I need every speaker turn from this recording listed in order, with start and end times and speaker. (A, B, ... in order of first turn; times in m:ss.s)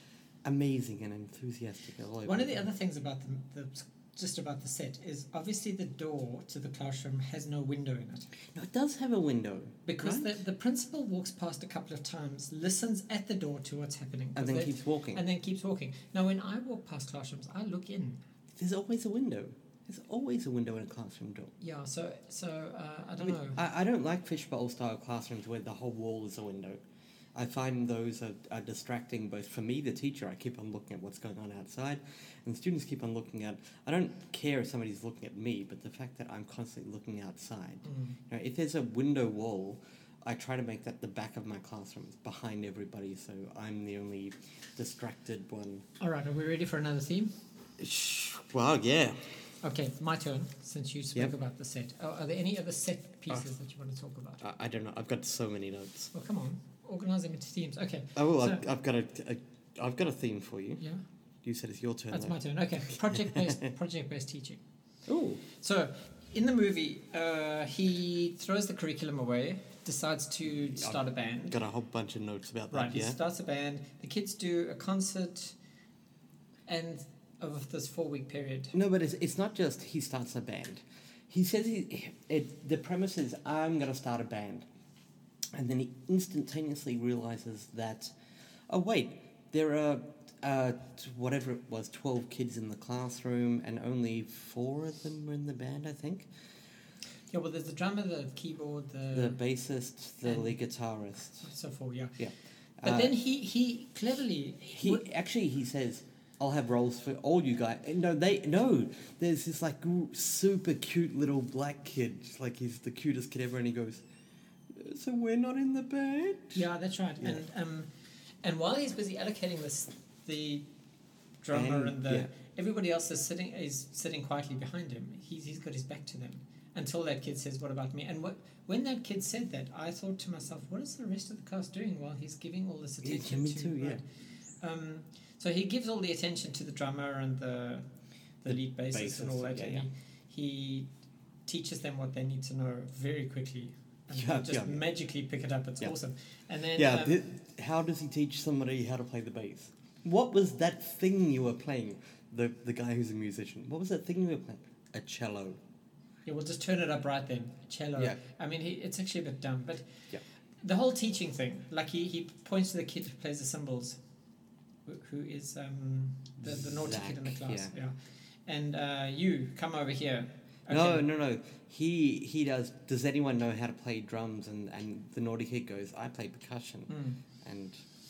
0:00.4-0:02.6 A
0:02.2-0:08.3 B
0:08.5-0:10.4 A
0:09.8-0:18.2 B
0:14.3-0:15.2 A
0:18.5-0:21.5 A
0:21.6-0:23.6 B
0:23.2-0:26.8 A
0:27.3-0:45.8 A
0:37.8-0:38.2 B
0:46.0-0:47.3 B
0:47.8-0:49.3 A
0:49.6-0:54.4 B
0:54.4-0:56.1 A
0:56.1-0:58.6 B
0:58.1-1:00.8 A
1:01.4-1:02.4 A
1:02.1-1:04.6 B
1:02.9-1:03.6 A
1:05.1-1:05.4 A
1:05.5-1:11.6 B
1:10.5-1:13.2 A
1:12.7-1:15.6 B
1:16.7-1:18.7 B
1:18.7-1:24.6 A
1:25.5-1:28.1 A
1:28.7-1:36.3 A
1:37.3-1:39.4 B
1:39.1-1:41.5 A
1:40.2-1:40.5 B
1:41.4-1:42.2 B
1:42.2-1:43.2 A
1:42.8-1:45.0 B
1:44.7-1:54.0 A
1:54.7-1:56.6 A
1:56.5-1:57.9 B
1:58.4-2:00.7 B
2:01.4-2:14.0 B
2:01.5-2:02.3 A
2:13.0-2:14.0 A
2:14.6-2:17.8 B
2:18.4-2:20.9 B
2:18.4-2:19.9 A
2:21.5-2:27.2 B
2:24.1-2:24.9 A
2:26.7-2:35.6 A
2:36.2-2:39.9 B
2:40.6-2:44.0 B
2:44.9-2:47.9 B
2:46.4-2:47.7 A
2:48.4-2:51.0 B
2:50.7-2:57.8 A
2:56.9-2:57.2 B